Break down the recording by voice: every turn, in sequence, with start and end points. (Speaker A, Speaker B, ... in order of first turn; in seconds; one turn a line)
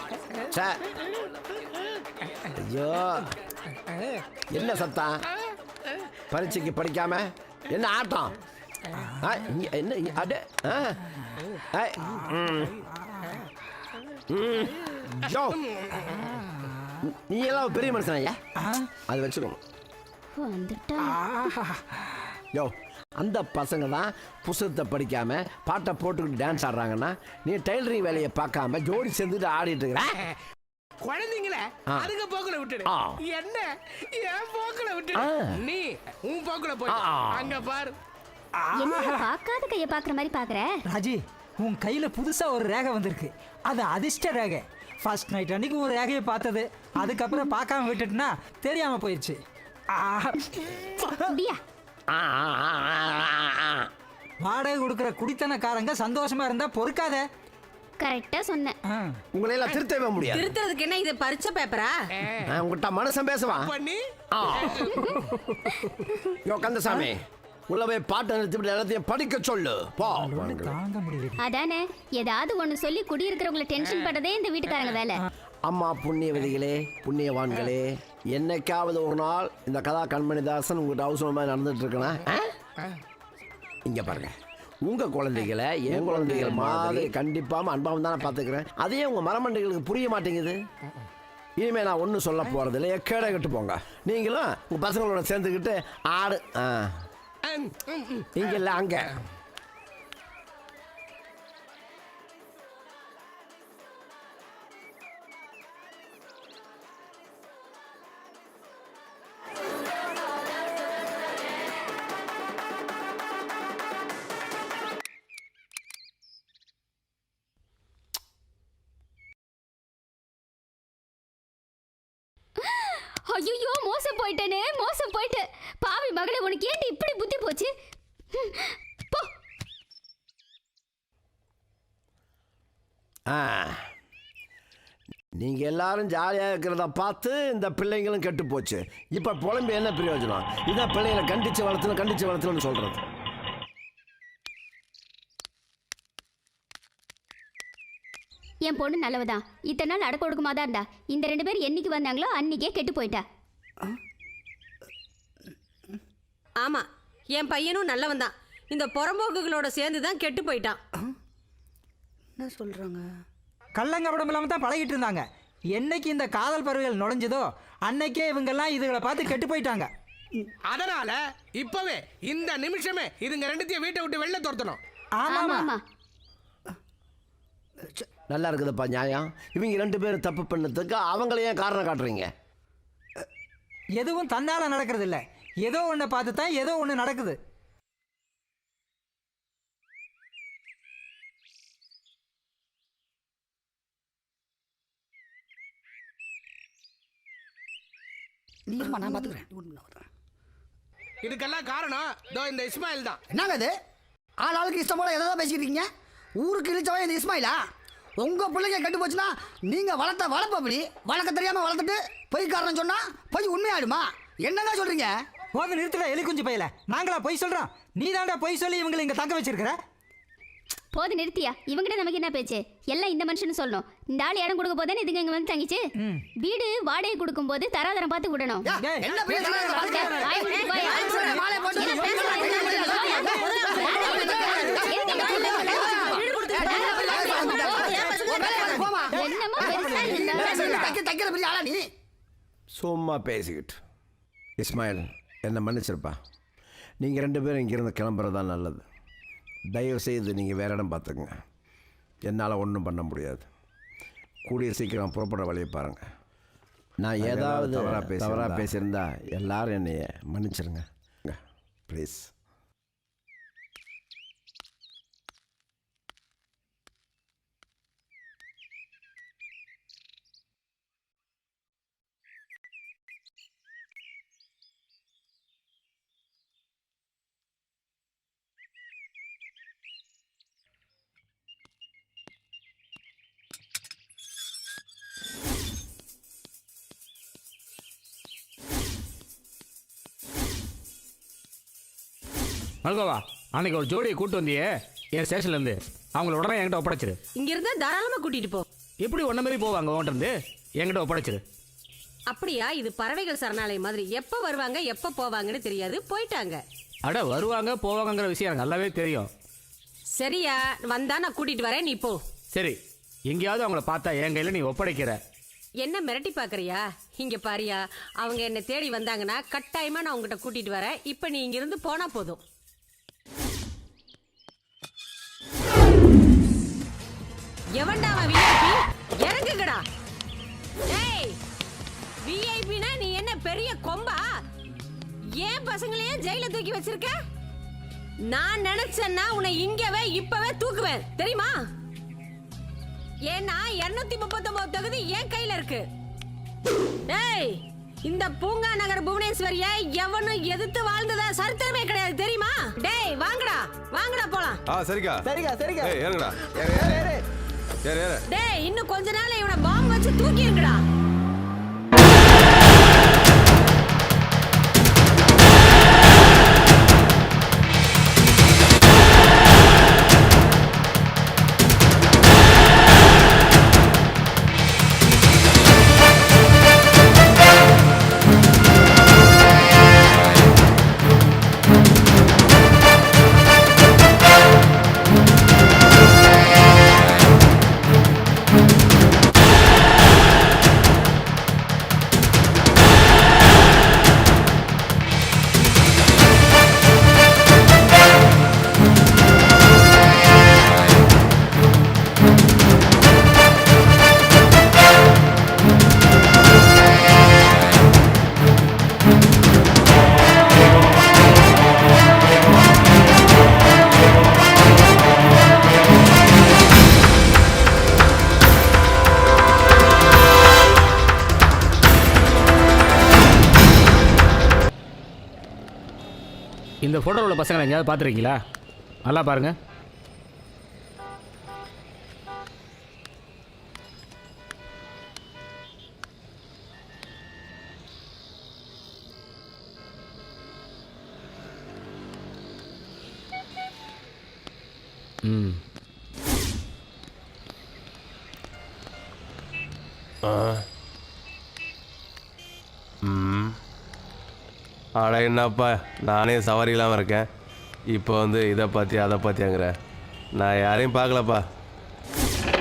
Speaker A: 0.5-0.8
Speaker A: 2.5-3.3
Speaker A: 4.5-5.2
Speaker A: 6.3-8.3
Speaker A: 9.2-11.0
Speaker A: 11.7-12.7
Speaker A: 14.3-15.6
Speaker A: 17.1-18.4
Speaker B: 18.6-18.9
Speaker A: 19.1-19.6
Speaker C: 20.3-21.2
Speaker B: 21.0-21.8
Speaker A: 22.5-30.1
Speaker D: 31.0-37.9
Speaker A: 32.9-33.2
Speaker A: 35.1-35.5
Speaker A: 36.9-37.5
Speaker B: 38.6-39.2
Speaker C: 38.7-40.7
Speaker B: 40.9-49.4
Speaker B: 49.9-51.3
Speaker C: 51.0-51.6
Speaker A: 52.1-53.9
Speaker B: 54.4-57.2
Speaker C: 58.0-58.8
Speaker B: 58.9-59.2
Speaker A: 59.3-60.5
Speaker E: 60.3-61.9
Speaker A: 62.5-63.7
Speaker D: 63.5-64.0
Speaker A: 64.3-64.8
Speaker C: 64.9-65.2
Speaker A: 66.4-70.7
Speaker B: 70.1-71.4
Speaker C: 71.4-75.2
Speaker A: 75.7-82.5
Speaker A: 83.8-90.6
Speaker D: 86.2-86.7
Speaker A: 91.6-96.9
Speaker D: 97.4-98.3
Speaker A: 98.3-99.2
Speaker C: 122.6-127.7
Speaker C: 128.3-129.3
Speaker A: 133.3-133.8
Speaker A: 135.4-143.0
Speaker C: 148.7-153.2
Speaker E: 156.6-160.8
Speaker F: 162.4-163.1
Speaker B: 163.8-169.9
Speaker D: 170.7-174.8
Speaker B: 175.2-175.7
Speaker C: 175.3-175.8
Speaker A: 178.3-182.3
Speaker B: 184.0-187.4
Speaker F: 198.7-200.1
Speaker D: 201.2-203.2
Speaker F: 203.3-203.7
Speaker F: 204.4-205.9
Speaker F: 206.4-207.6
Speaker F: 208.2-215.1
Speaker B: 215.5-219.8
Speaker C: 220.9-225.8
Speaker C: 226.4-228.7
Speaker F: 228.6-241.8
Speaker B: 228.8-229.5
Speaker D: 229.3-229.9
Speaker C: 229.8-231.2
Speaker E: 229.8-238.6
Speaker C: 231.7-235.7
Speaker D: 232.9-233.2
Speaker C: 236.5-237.9
Speaker B: 237.8-241.0
Speaker C: 239.1-240.8
Speaker A: 242.8-243.8
Speaker A: 244.6-246.2
Speaker A: 247.0-248.8
Speaker A: 249.7-251.3
Speaker A: 252.3-253.4
Speaker A: 254.4-256.0
Speaker A: 257.0-261.4
Speaker G: 257.2-258.6
Speaker A: 261.9-262.3
Speaker H: 292.8-297.2
Speaker E: 297.4-298.6
Speaker H: 299.0-301.4
Speaker E: 302.3-306.6
Speaker H: 307.1-309.3
Speaker E: 310.2-312.2
Speaker H: 312.5-312.8
Speaker H: 313.3-315.2
Speaker E: 315.8-322.4
Speaker E: 327.8-329.8
Speaker E: 330.9-331.4
Speaker E: 332.2-334.2
Speaker E: 335.4-337.1
Speaker E: 338.3-341.5
Speaker E: 343.3-345.8
Speaker E: 347.1-354.6
Speaker G: 354.7-355.2
Speaker D: 355.4-355.9
Speaker G: 355.8-357.0
Speaker D: 356.6-357.2
Speaker G: 357.8-358.2
Speaker E: 358.3-360.8
Speaker H: 426.8-428.4
Speaker H: 429.1-429.5
Speaker H: 445.2-445.6
Speaker G: 450.2-450.6
Speaker G: 453.0-453.5
Speaker G: 455.0-457.2
Speaker G: 457.9-459.7
Speaker G: 460.4-461.4